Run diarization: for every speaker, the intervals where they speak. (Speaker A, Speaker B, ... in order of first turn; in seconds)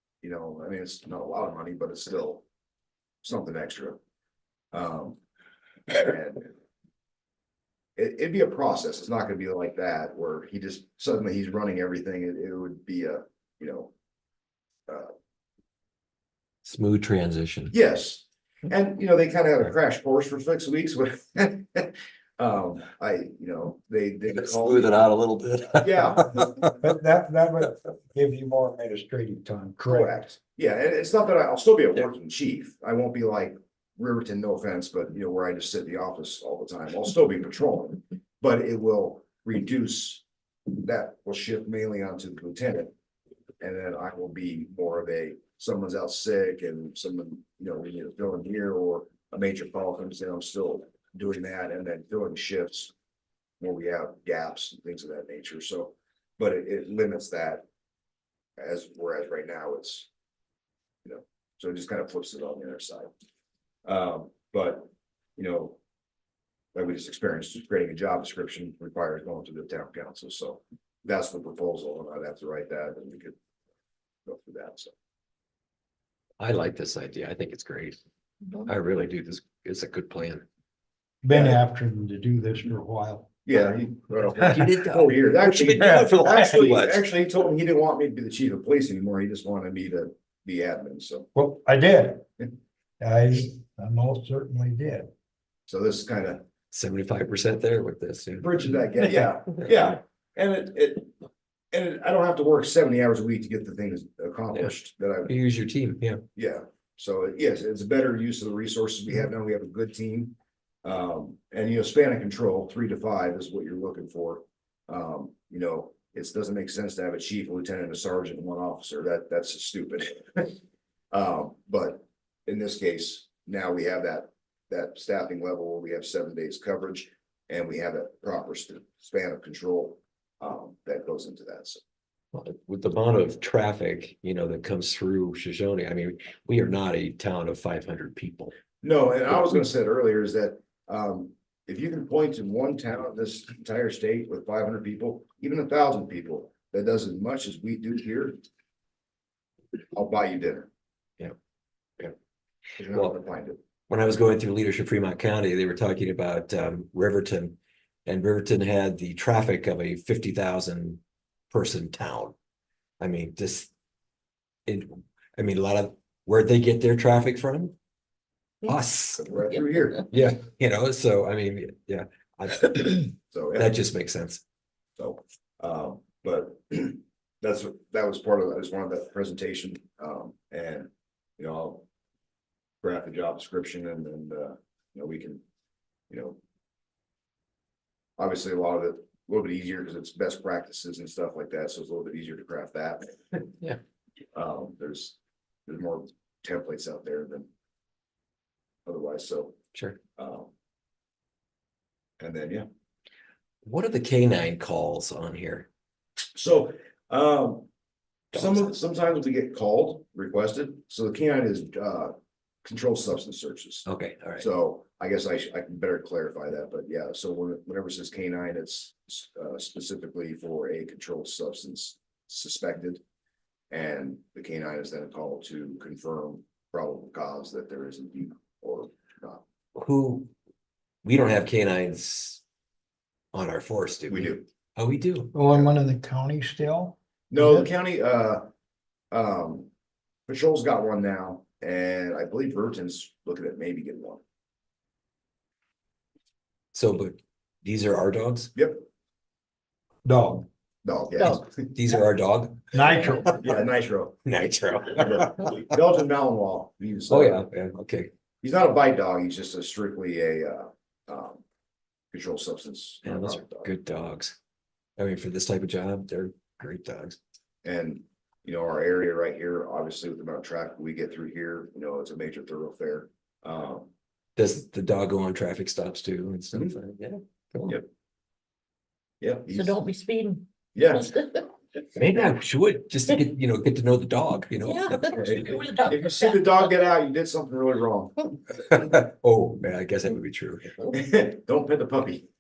Speaker A: 0.2-2.4, 3.2-4.0, 4.7-5.2, 5.9-6.5, 8.0-13.9, 17.7-25.0, 25.8-26.5, 29.8-42.9, 43.6-52.9, 53.6-57.7, 58.6-60.1, 61.0-63.1, 63.9-65.8, 66.8-73.4, 74.3-74.9, 81.3-81.6, 83.5-91.3, 95.7-96.4, 98.4-101.1, 101.7-105.3, 106.3-120.6, 121.1-131.8, 138.8-148.4, 149.9-150.7, 152.8-153.6, 169.2-170.1, 173.3-173.7, 175.0-181.8, 182.8-185.4, 186.1-186.4, 188.2-193.5, 194.3-197.5, 198.9-199.6, 200.2-200.5, 202.2-202.7, 206.4-207.7, 208.3-213.9, 214.4-223.0, 223.7-229.4, 234.1-234.4, 235.5-235.8, 237.3-238.5, 239.1-239.7, 240.3-244.2, 248.6-248.8, 250.8-251.7, 253.2-254.2, 255.0-257.5, 258.4-261.4, 262.1-263.7, 267.6-273.9, 279.2-279.8, 280.8-281.2, 285.1-288.3, 290.9-292.3
Speaker B: 16.6-17.7, 24.3-26.8, 76.4-78.0, 78.6-80.5, 84.4-87.1, 96.7-98.6, 105.3-106.2, 132.3-138.5, 152.9-153.2, 153.9-162.3, 163.0-163.7, 164.7-167.7, 168.7-169.2, 170.1-174.4, 203.7-205.7, 208.3-208.7, 213.9-214.5, 229.8-230.3, 231.0-232.4, 233.3-235.3, 246.7-248.5, 251.6-253.3, 254.3-255.7, 257.1-258.1, 263.0-264.4, 265.0-267.2, 274.4-277.8, 281.9-285.7, 288.6-290.8
Speaker C: 26.8-30.1, 81.2-83.3, 91.3-92.3, 93.0-95.1, 235.3-237.7, 250.1-250.5, 252.7-253.4
Speaker D: 279.5-280.4, 280.9-281.4, 284.6-286.4